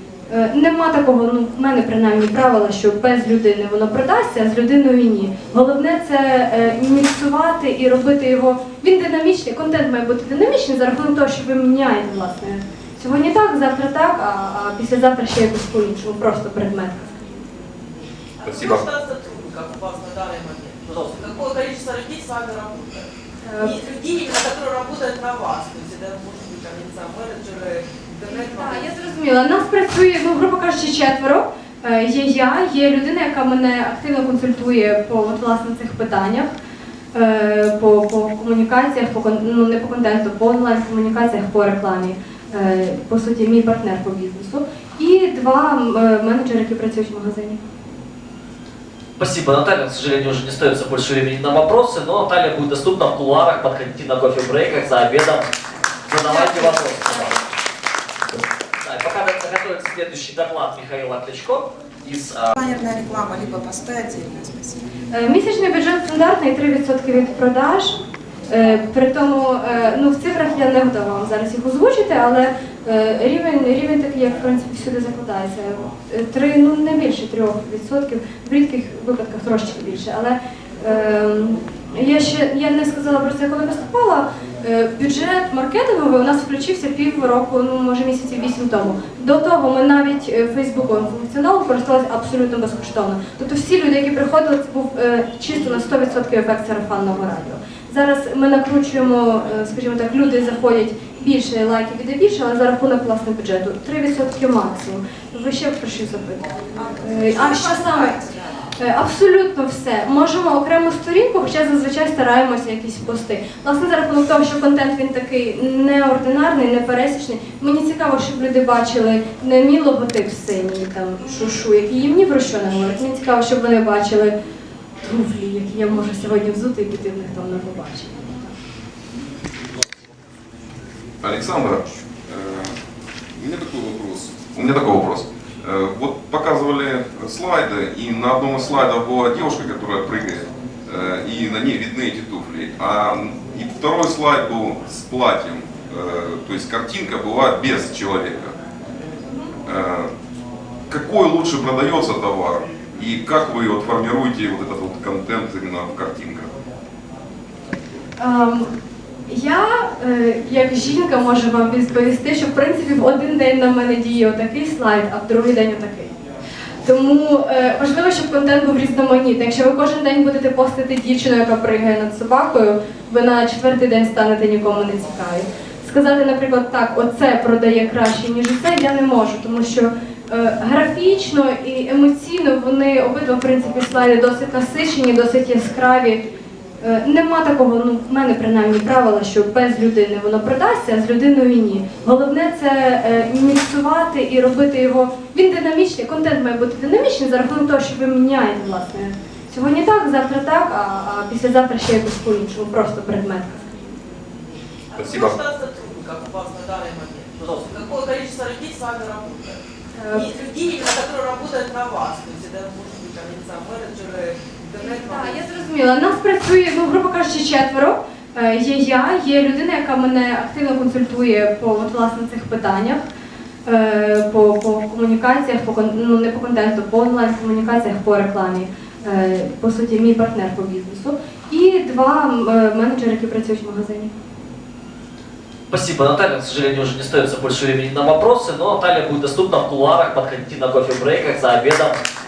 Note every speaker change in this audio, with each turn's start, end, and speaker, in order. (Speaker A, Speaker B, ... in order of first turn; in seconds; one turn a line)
Speaker A: 0.3-17.2
Speaker B: 18.4-28.9
Speaker C: 20.9-21.1
Speaker A: 23.4-23.8
Speaker A: 28.3-36.5
Speaker A: 37.1-47.6
Speaker C: 49.2-55.5
Speaker C: 56.1-57.4
Speaker A: 56.2-57.4
Speaker C: 58.8-62.5
Speaker D: 62.5-64.8
Speaker A: 65.1-68.0
Speaker A: 68.5-106.5
Speaker D: 106.8-108.7
Speaker A: 107.0-108.1
Speaker A: 108.8-124.3
Speaker A: 125.0-128.5
Speaker E: 131.2-132.8
Speaker E: 133.4-148.6
Speaker A: 149.3-149.5
Speaker E: 149.7-150.1
Speaker E: 150.9-156.5
Speaker A: 158.2-158.7
Speaker A: 159.3-166.1
Speaker A: 166.8-186.2
Speaker A: 186.8-203.8
Speaker B: 204.9-215.4
Speaker E: 205.0-205.4
Speaker C: 207.4-207.7
Speaker A: 210.0-210.4
Speaker A: 214.8-223.1
Speaker A: 223.7-234.1
Speaker C: 235.7-242.0